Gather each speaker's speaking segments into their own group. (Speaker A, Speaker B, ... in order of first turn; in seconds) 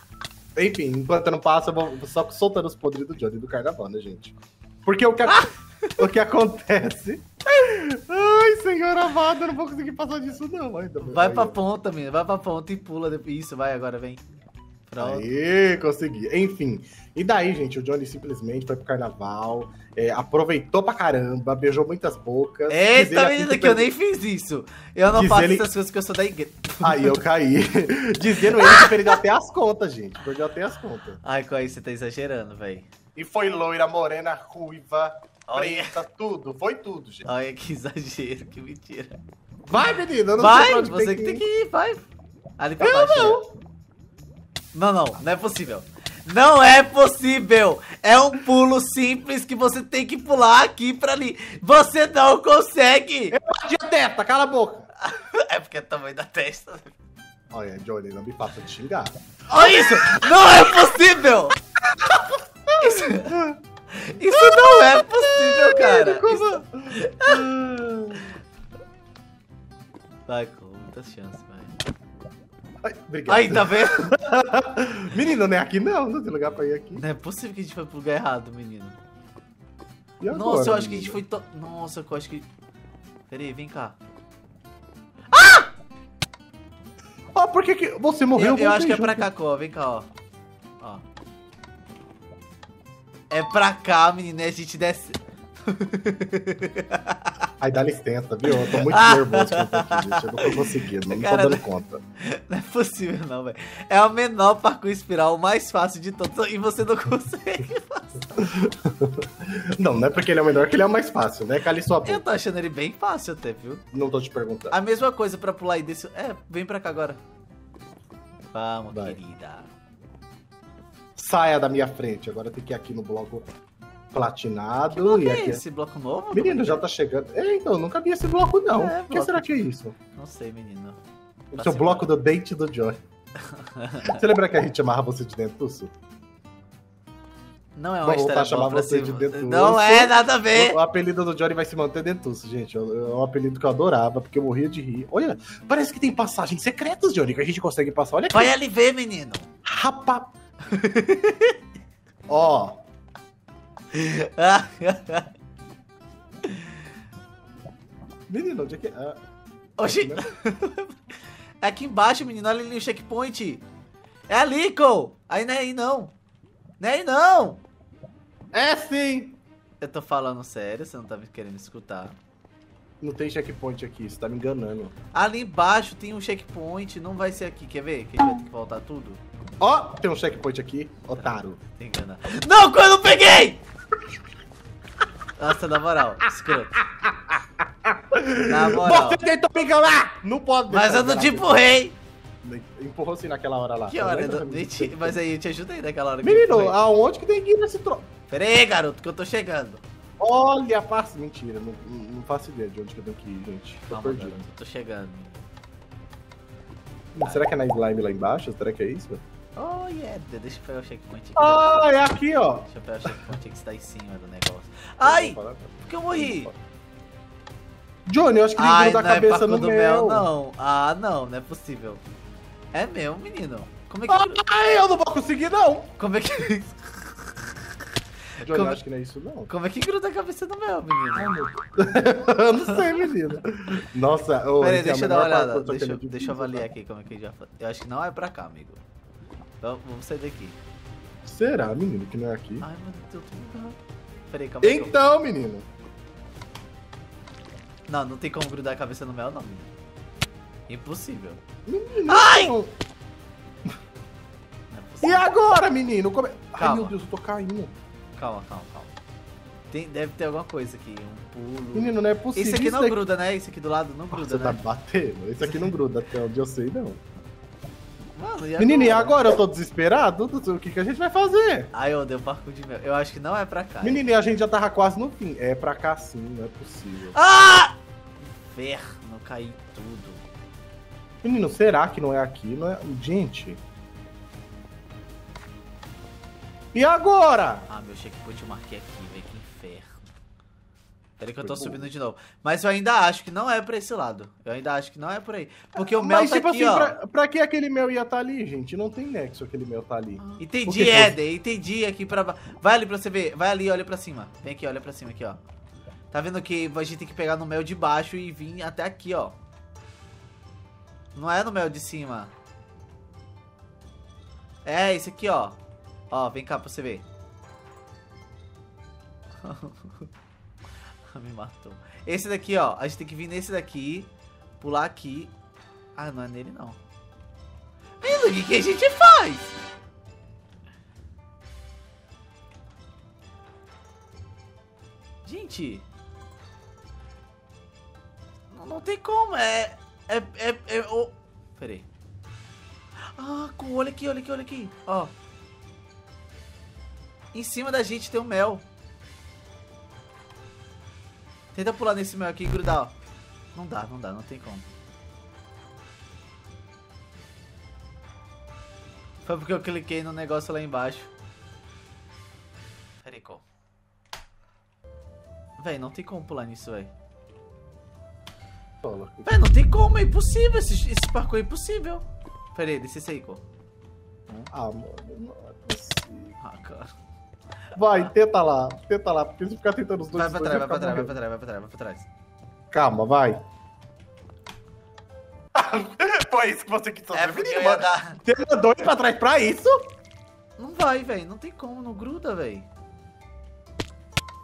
Speaker A: 0.6-11.6, 15.0-23.9, 25.1-25.7, 26.8-31.2, 33.1-37.2, 39.6-41.4, 42.8-43.5, 53.3-54.9, 57.5-61.0, 61.9-63.6, 64.3-68.3, 72.8-77.0, 80.2-81.2, 87.3-89.3, 97.6-102.0, 108.4-112.2, 113.9-114.7, 118.9-119.2, 121.2-123.5, 124.1-125.6, 126.3-129.9, 131.5-133.0, 134.0-135.9, 138.0-148.5, 149.6-150.3, 152.3-152.8, 158.3-159.2, 159.8-160.2, 168.5-169.4, 173.0-174.9, 179.6-181.6, 186.5-191.6, 192.4-195.2, 196.2-198.1, 200.2-204.4, 207.1-209.2, 211.4-213.1, 215.0-216.5, 218.1-220.3, 224.1-225.9, 228.4-229.5, 231.1-236.7, 241.2-242.7, 244.6-245.7, 251.7-252.7, 255.0-257.7, 261.7-263.0, 264.1-267.0, 268.6-271.7, 273.8-277.2, 281.2-283.6, 286.7-287.7, 291.4-291.9, 295.8-301.1, 368.8-369.4, 374.5-376.4, 377.7-381.1, 382.7-383.4, 385.5-389.9
Speaker B: 5.3-6.0, 11.0-14.2, 14.9-15.2, 22.7-27.2, 28.4-29.1, 31.2-32.9, 35.5-36.0, 37.2-39.2, 40.4-43.4, 44.7-53.4, 55.0-56.9, 59.5-61.6, 62.8-63.4, 63.9-67.5, 70.3-71.8, 73.3-74.2, 77.0-79.0, 80.3-82.5, 83.3-84.0, 85.3-85.7, 88.3-90.1, 90.8-91.0, 93.3-97.5, 98.5-101.6, 102.2-108.4, 112.0-113.8, 114.7-117.2, 118.5-119.7, 124.9-126.8, 128.7-131.0, 131.6-132.1, 133.4-134.2, 137.8-140.8, 148.3-149.5, 150.7-151.6, 153.9-155.3, 156.4-156.7, 159.8-163.6, 164.3-166.1, 166.8-167.6, 169.8-172.2, 175.1-179.2, 181.2-183.6, 185.4-186.8, 188.4-189.2, 190.7-191.9, 193.9-196.8, 198.3-199.8, 203.9-205.4, 209.6-212.1, 212.6-216.5, 218.6-222.0, 222.7-224.4, 226.0-227.3, 228.4-228.8, 229.5-231.3, 232.6-233.1, 234.6-238.8, 239.6-240.6, 242.6-243.8, 244.3-245.0, 247.9-249.7, 250.7-251.4, 252.1-252.5, 254.7-255.3, 256.6-256.9, 258.2-258.9, 259.7-264.6, 268.1-269.3, 271.7-274.0, 277.1-280.2, 287.7-290.1, 291.2-297.0, 300.4-305.4, 306.1-309.4, 311.1-312.3, 314.6-315.6, 316.1-317.0, 319.4-320.1, 321.1-325.3, 325.9-326.8, 328.0-329.6, 335.2-335.8, 338.5-341.9, 343.1-345.1, 347.3-348.6, 351.5-352.9, 353.5-354.7, 359.2-361.1, 363.0-363.4, 365.6-366.9, 369.2-373.4, 376.4-376.9, 380.1-382.1, 387.1-388.2, 390.6-392.7